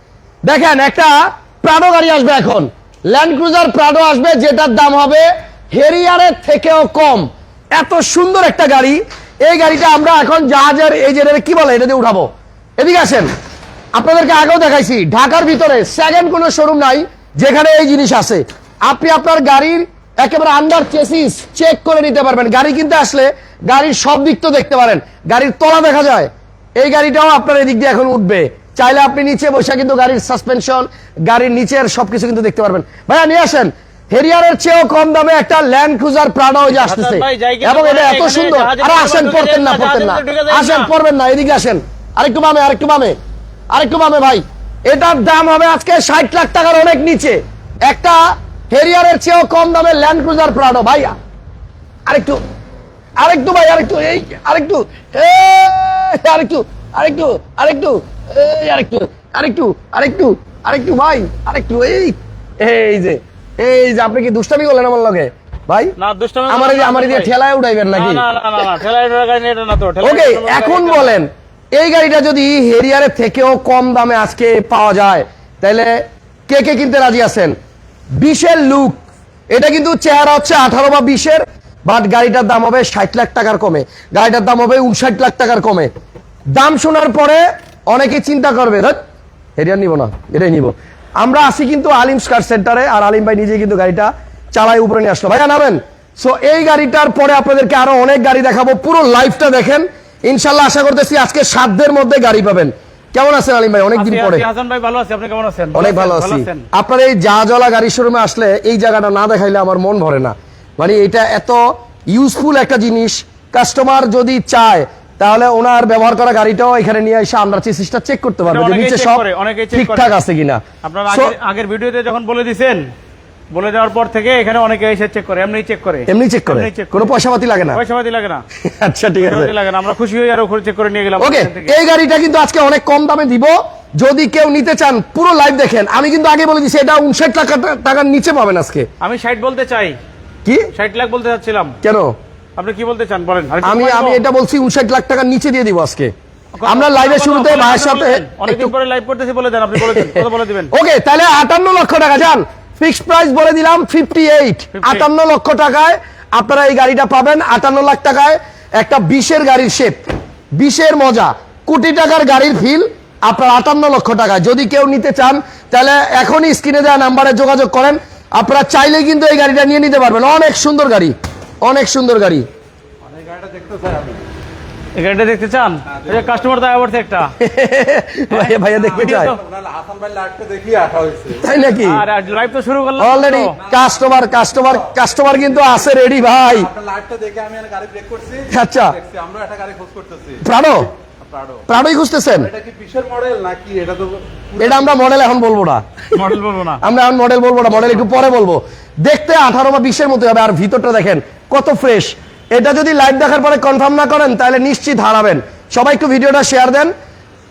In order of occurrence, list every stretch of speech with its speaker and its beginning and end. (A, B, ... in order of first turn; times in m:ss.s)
0:00.4-0:13.3 A
0:13.9-0:43.2 A
0:36.7-0:40.9 B
0:43.7-0:51.1 A
0:52.1-0:52.4 A
0:53.2-1:05.9 A
1:06.0-1:07.3 B
1:06.5-1:08.2 A
1:07.9-1:11.2 B
1:10.0-1:17.5 A
1:18.1-1:25.9 A
1:26.5-1:29.0 A
1:29.6-1:44.4 A
1:43.9-1:46.7 B
1:45.7-2:01.3 A
1:58.4-2:00.1 B
2:00.8-2:02.9 B
2:03.5-2:07.1 B
2:06.1-2:07.8 A
2:07.7-2:08.4 B
2:08.6-2:09.5 A
2:09.2-2:11.8 B
2:11.2-2:18.9 A
2:19.0-2:20.0 B
2:20.7-2:21.8 B
2:21.8-2:22.2 A
2:22.6-2:24.2 B
2:23.6-2:26.1 A
2:26.5-2:30.7 B
2:26.6-2:28.7 A
2:29.7-2:52.5 A
2:34.7-2:35.1 B
2:53.0-2:54.2 C
2:54.9-2:57.4 B
2:55.9-2:56.4 C
2:57.4-2:59.4 A
2:58.3-2:59.4 B
2:58.8-3:01.5 C
3:01.4-3:02.0 A
3:01.8-3:03.6 B
3:03.0-3:06.7 A
3:03.6-3:03.9 C
3:06.4-3:10.4 C
3:08.5-3:09.0 A
3:10.4-3:10.9 A
3:11.2-3:11.6 C
3:11.7-3:12.5 A
3:12.4-3:14.9 C
3:14.6-3:26.9 A
3:16.1-3:16.8 B